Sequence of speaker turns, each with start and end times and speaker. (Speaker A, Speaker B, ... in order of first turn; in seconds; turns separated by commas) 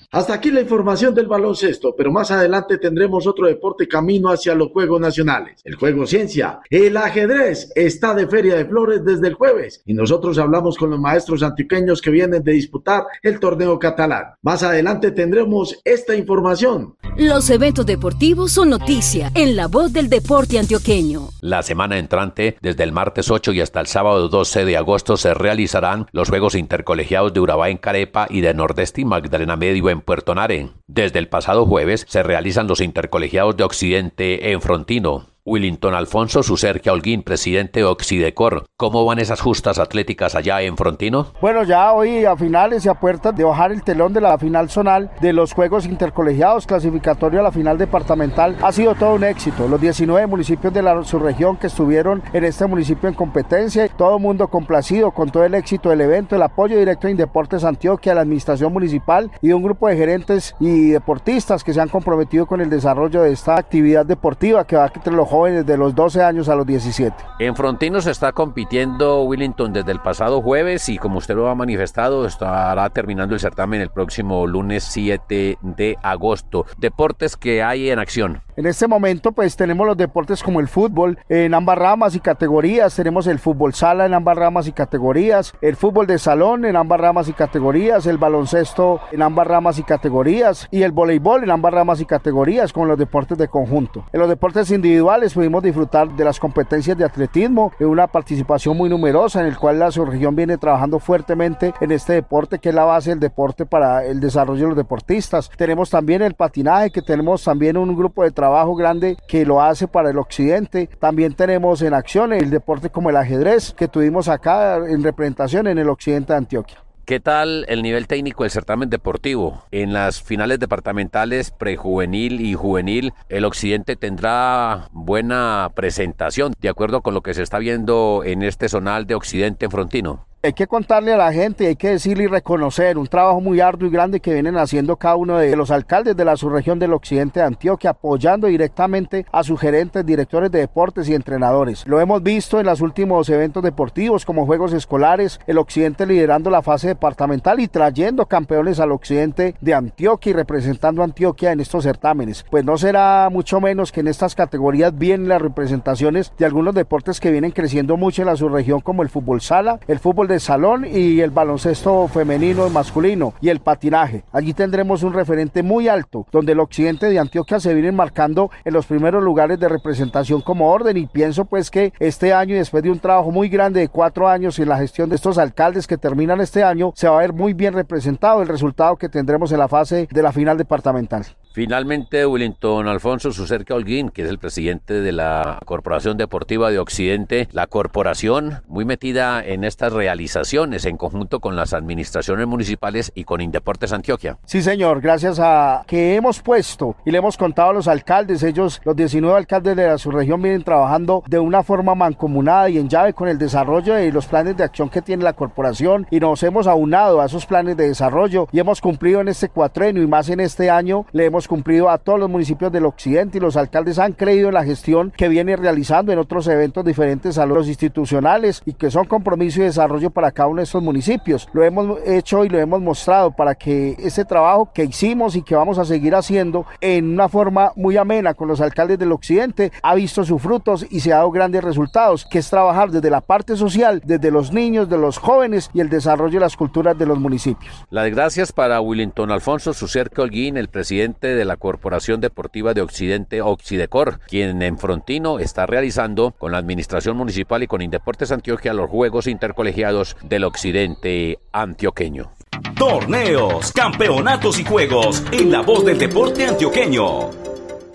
Speaker A: 0.1-17.0, Speaker B: 17.2-21.3, Speaker C: 21.4-41.3, Speaker D: 41.4-67.2, Speaker C: 67.4-78.4, Speaker D: 78.6-116.8, Speaker C: 117.1-130.2, Speaker D: 130.4-181.3, Speaker C: 181.5-194.4, Speaker D: 194.5-237.8, Speaker C: 237.9-252.3, Speaker E: 252.8-257.3